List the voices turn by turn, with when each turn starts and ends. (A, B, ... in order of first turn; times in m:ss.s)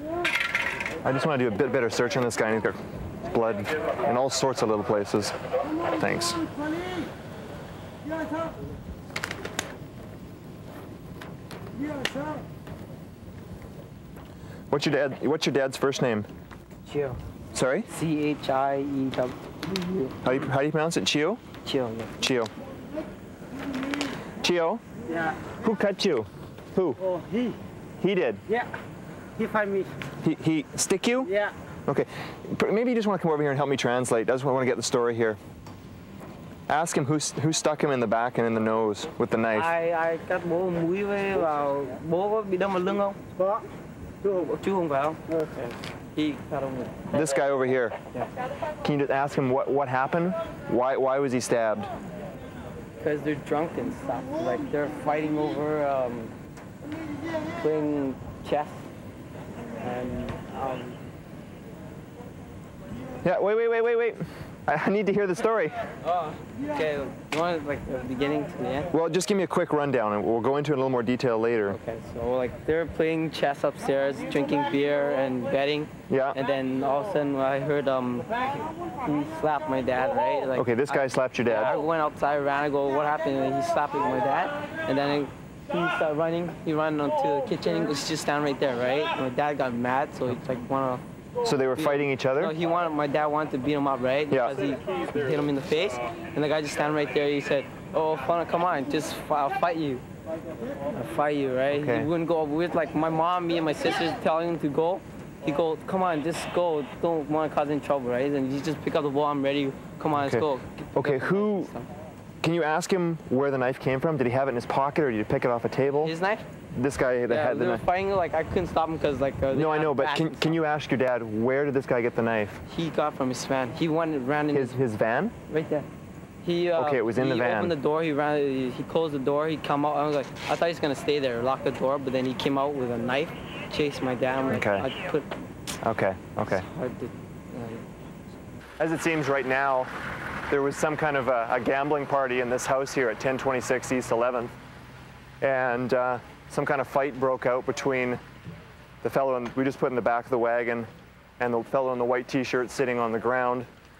0:01.0-0:05.4 A
0:06.0-0:06.4 A
0:14.7-0:16.3 A
0:16.9-0:17.2 B
0:17.5-0:17.9 A
0:17.9-0:20.1 B
0:20.2-0:21.4 A
0:21.6-0:22.1 B
0:22.2-0:22.5 A
0:24.4-0:24.8 A
0:25.1-0:25.4 C
0:25.6-0:27.0 A
0:27.0-0:27.6 C
0:28.0-0:28.4 A
0:29.4-0:29.9 C
0:30.2-0:31.3 A
0:31.2-0:31.5 C
0:31.9-0:35.4 A
0:36.7-0:39.7 A
0:39.6-0:43.2 B
0:43.4-0:43.6 C
0:44.4-0:45.2 B
0:45.3-0:45.6 C
0:46.2-0:47.4 B
0:47.1-0:48.0 A
0:48.8-0:51.9 A
0:53.0-0:56.3 B
0:57.6-0:58.8 B
0:59.8-1:01.0 B
1:03.2-1:05.8 A
1:06.1-1:08.9 B
1:08.9-1:11.8 A
1:11.7-1:31.0 B
1:16.1-1:16.4 A
1:20.6-1:21.8 A
1:31.4-1:32.5 A
1:31.7-1:40.0 B
1:34.3-1:34.6 A
1:40.9-1:51.9 B
1:41.7-1:42.1 A
1:50.2-1:51.7 A
1:52.4-1:56.1 A
1:56.0-1:56.4 B
1:56.8-1:57.8 A
1:57.3-2:00.6 B
1:59.5-2:02.6 A
2:02.7-2:04.8 B
2:04.5-2:05.3 A
2:05.5-2:05.9 B
2:06.4-2:15.3 B
2:06.8-2:07.8 A
2:14.5-2:14.9 A
2:15.8-2:16.6 A
2:16.5-2:17.9 B
2:18.8-2:19.9 A
2:20.5-2:24.5 A
2:25.4-2:28.2 A
2:29.0-2:33.7 A